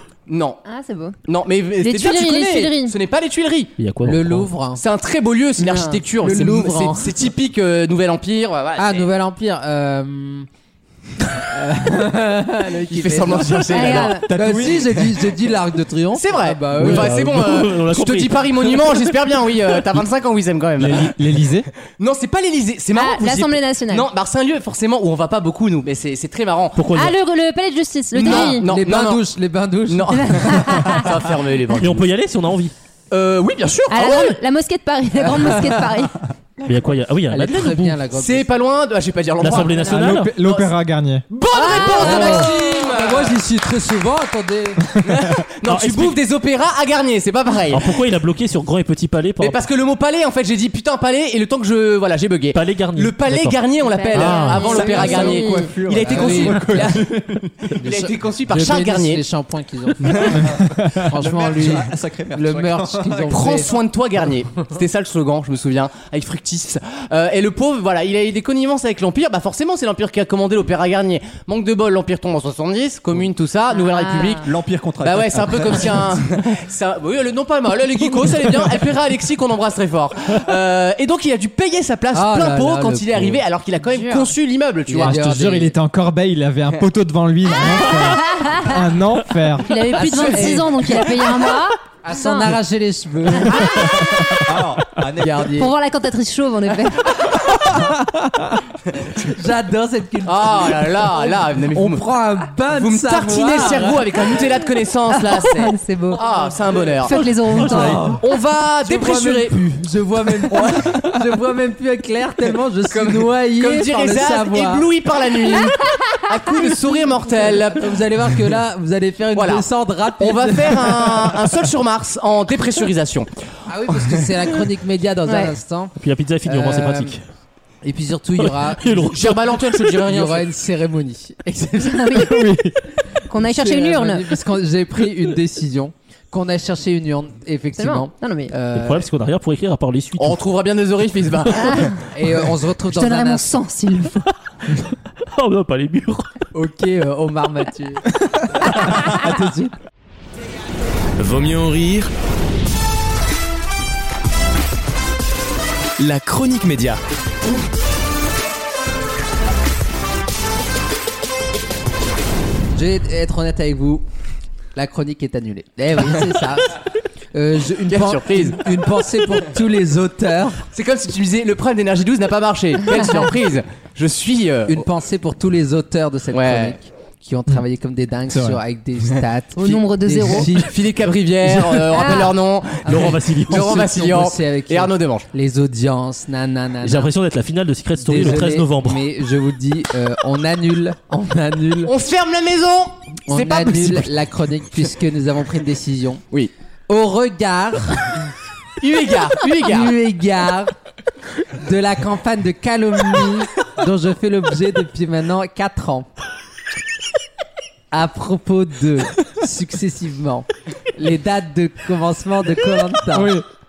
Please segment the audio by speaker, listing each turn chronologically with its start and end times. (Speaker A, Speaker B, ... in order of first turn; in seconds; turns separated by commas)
Speaker A: 0.3-0.6, Speaker B: 0.7-1.1, Speaker A: 1.2-3.7, Speaker B: 1.8-3.0, Speaker C: 3.8-4.5, Speaker D: 4.0-4.8, Speaker A: 4.8-9.1, Speaker B: 5.6-6.0, Speaker D: 6.2-7.1, Speaker D: 8.8-10.5, Speaker D: 11.4-17.1, Speaker A: 12.9-14.2, Speaker B: 13.7-14.3, Speaker E: 14.1-15.2, Speaker A: 16.1-21.2, Speaker C: 16.8-19.1, Speaker F: 20.8-21.7, Speaker A: 22.0-26.8, Speaker B: 22.9-24.1, Speaker C: 26.8-27.1, Speaker B: 26.9-28.7, Speaker A: 28.1-29.3, Speaker D: 28.2-30.5, Speaker A: 29.9-32.0, Speaker B: 30.2-31.1, Speaker C: 31.8-32.7, Speaker A: 33.1-34.4, Speaker B: 33.9-36.2, Speaker D: 35.2-35.7, Speaker C: 36.6-38.0, Speaker D: 37.3-38.5, Speaker A: 38.1-40.7, Speaker C: 39.4-40.3, Speaker F: 39.8-41.2, Speaker A: 41.3-43.3, Speaker B: 41.5-42.5, Speaker D: 41.8-44.9, Speaker C: 42.1-42.4, Speaker A: 45.0-47.9, Speaker C: 45.6-46.2, Speaker C: 47.7-49.6, Speaker A: 49.4-57.1, Speaker C: 52.5-53.6, Speaker B: 53.8-55.8, Speaker C: 54.1-54.7, Speaker E: 54.7-57.8, Speaker D: 56.1-57.0, Speaker A: 57.8-59.2, Speaker D: 57.8-63.7, Speaker E: 60.2-63.7, Speaker F: 60.6-60.9, Speaker A: 63.3-74.5, Speaker B: 73.7-74.5, Speaker E: 74.4-76.2, Speaker A: 75.0-85.6, Speaker D: 82.1-83.4, Speaker B: 83.9-84.3, Speaker D: 84.9-85.7, Speaker F: 85.0-89.7, Speaker B: 87.7-88.7, Speaker B: 89.6-92.6, Speaker D: 90.0-90.7, Speaker A: 90.0-90.7, Speaker D: 92.0-93.8, Speaker B: 93.3-94.1, Speaker E: 94.3-95.7, Speaker D: 95.2-95.7, Speaker B: 95.5-97.3, Speaker F: 98.1-98.4, Speaker D: 99.1-104.2, Speaker A: 100.2-102.1, Speaker A: 102.7-107.6, Speaker B: 105.1-106.3, Speaker B: 107.0-108.2, Speaker C: 107.5-108.1, Speaker D: 107.7-108.2, Speaker A: 108.2-109.6, Speaker D: 108.8-114.8, Speaker A: 110.5-110.9, Speaker A: 112.9-117.9, Speaker D: 117.7-121.0, Speaker A: 119.3-119.6, Speaker A: 120.2-123.3, Speaker D: 123.7-125.9, Speaker B: 125.2-125.5, Speaker C: 126.0-127.2, Speaker D: 126.4-127.2, Speaker D: 127.8-129.3, Speaker C: 128.4-129.8, Speaker A: 129.1-130.5, Speaker D: 130.1-132.3, Speaker B: 131.8-132.7, Speaker F: 132.3-132.7, Speaker B: 133.3-134.2, Speaker D: 133.4-139.1, Speaker B: 137.8-138.5, Speaker C: 138.8-140.4, Speaker A: 140.2-141.9, Speaker B: 141.6-141.9, Speaker D: 142.1-143.4, Speaker B: 142.9-144.2, Speaker C: 145.3-146.3, Speaker D: 146.5-148.0, Speaker D: 148.6-149.7, Speaker G: 151.2-152.1, Speaker G: 156.0-157.0, Speaker D: 162.7-164.0, Speaker D: 164.7-166.7, Speaker D: 167.3-170.6, Speaker A: 167.9-168.6, Speaker A: 170.7-174.8, Speaker D: 174.7-180.7, Speaker A: 176.3-176.8, Speaker F: 178.3-178.6, Speaker B: 179.6-180.5, Speaker A: 180.5-185.3, Speaker D: 181.4-181.8, Speaker B: 181.9-182.3, Speaker C: 182.8-183.8, Speaker D: 183.5-187.1, Speaker C: 186.8-189.0, Speaker D: 188.0-191.9, Speaker A: 191.8-194.1, Speaker D: 193.3-196.2, Speaker D: 196.9-198.1, Speaker A: 198.8-199.9, Speaker D: 199.6-200.7, Speaker D: 201.6-206.1, Speaker D: 207.9-213.4, Speaker F: 213.1-213.4